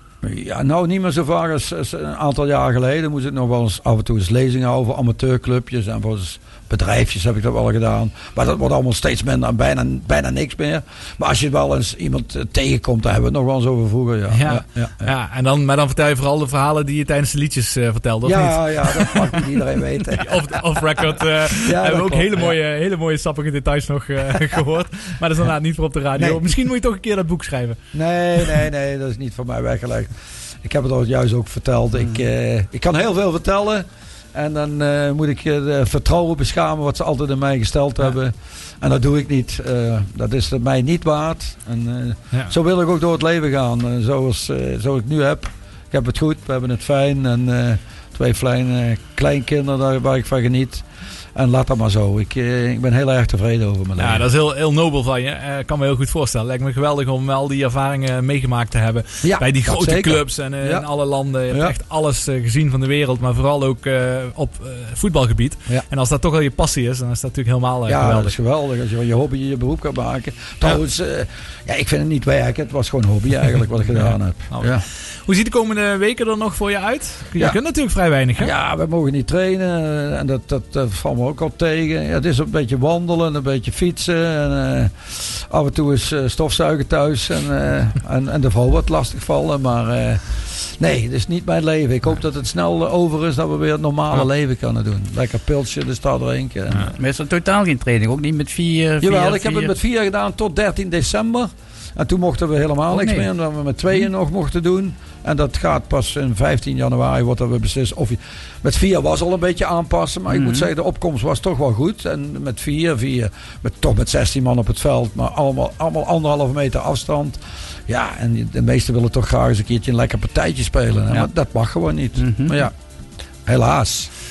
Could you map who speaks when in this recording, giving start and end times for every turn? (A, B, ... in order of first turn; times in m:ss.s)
0:00.2-0:15.1 A
0:14.3-0:19.3 B
0:18.2-0:22.6 A
0:20.2-0:27.8 B
0:26.2-0:26.4 A
0:27.9-0:54.3 A
0:54.0-1:08.3 B
0:59.2-1:00.9 A
1:01.5-1:01.7 A
1:07.9-1:14.8 A
1:14.0-1:18.5 B
1:18.4-1:37.0 A
1:37.0-1:39.7 C
1:39.0-2:02.7 A
1:42.9-1:43.3 C
1:50.3-1:50.7 C
2:02.2-2:02.7 C
2:03.4-2:04.1 A